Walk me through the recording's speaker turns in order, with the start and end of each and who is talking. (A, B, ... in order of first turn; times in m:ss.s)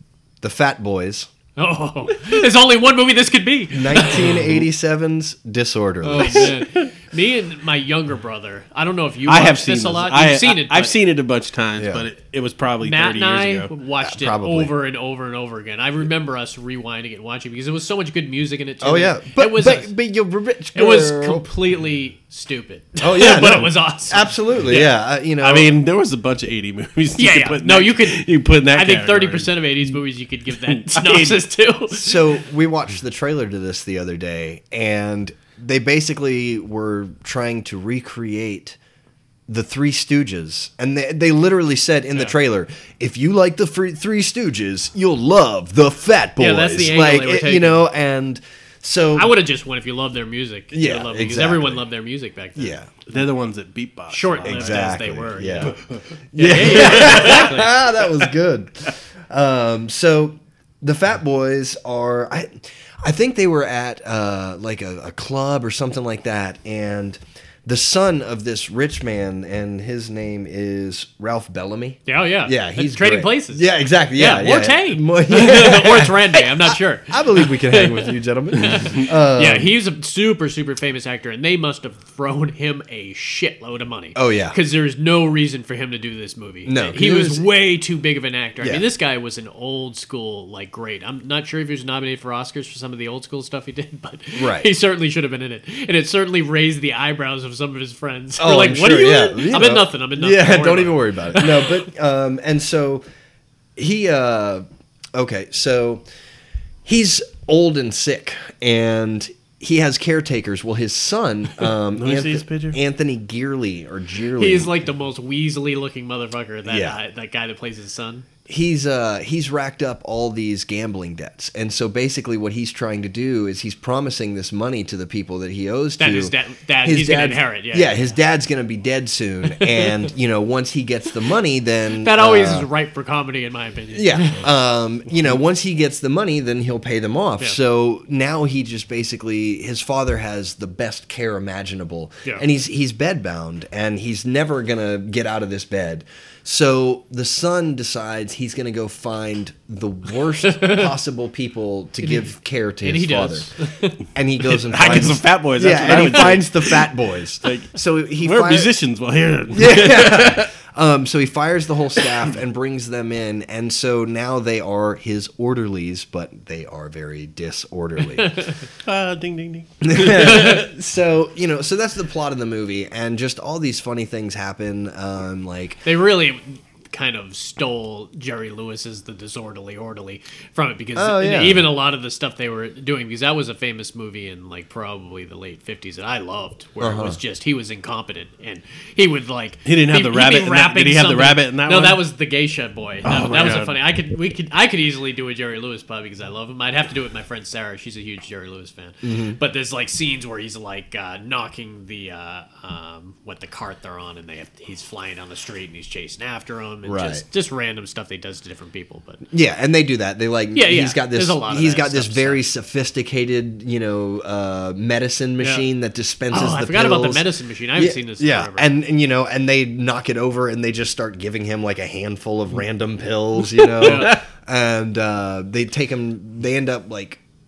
0:00.4-0:01.3 A
0:01.6-0:04.5 B
0:03.7-0:06.5 A
0:06.0-0:10.9 B
0:06.1-0:06.9 C
0:09.3-0:13.7 C
0:11.8-0:12.0 A
0:12.8-0:19.9 B
0:14.0-0:14.7 A
0:18.8-0:21.5 A
0:20.7-0:24.9 B
0:23.0-0:25.7 A
0:25.4-0:29.9 C
0:27.2-0:32.4 B
0:30.5-0:31.4 C
0:31.9-0:38.8 A
0:39.5-0:49.3 A
0:46.4-0:47.8 B
0:49.1-0:52.8 B
0:50.7-0:51.8 A
0:52.6-0:52.9 A
0:53.1-0:56.0 C
0:54.1-0:55.8 B
0:54.4-0:55.8 A
0:56.3-1:19.7 A
0:56.3-0:57.8 B
0:56.7-0:57.5 C
1:12.0-1:41.8 B
1:18.7-1:19.0 C
1:24.1-1:24.6 A
1:26.6-1:27.4 A
1:34.3-1:34.7 A
1:38.4-1:43.0 A
1:43.8-1:46.0 A
1:46.8-1:54.7 A
1:51.9-1:52.8 C
1:54.4-1:58.2 B
1:56.6-1:57.0 A
1:58.5-2:12.7 A
2:06.0-2:08.2 B
2:09.6-2:09.9 B
2:12.0-2:14.4 B
2:13.9-2:33.5 A
2:30.4-2:30.9 B
2:32.0-2:34.0 B
2:34.1-2:38.7 A
2:34.6-2:36.9 C
2:35.8-2:36.4 B
2:37.4-2:40.5 C
2:39.5-2:48.4 A
2:48.2-2:48.6 B
2:48.8-2:50.6 C
2:49.8-2:55.8 A
2:50.2-2:50.6 B
2:55.8-3:29.2 B
3:01.0-3:01.7 A
3:06.8-3:07.2 A
3:09.6-3:12.0 C
3:13.0-3:13.8 C
3:19.0-3:19.4 A
3:26.8-3:27.2 A
3:29.3-3:47.2 A
3:30.5-3:32.4 B
3:35.4-3:35.6 B
3:36.3-3:38.7 B
3:43.6-3:44.2 C
3:43.8-3:44.2 B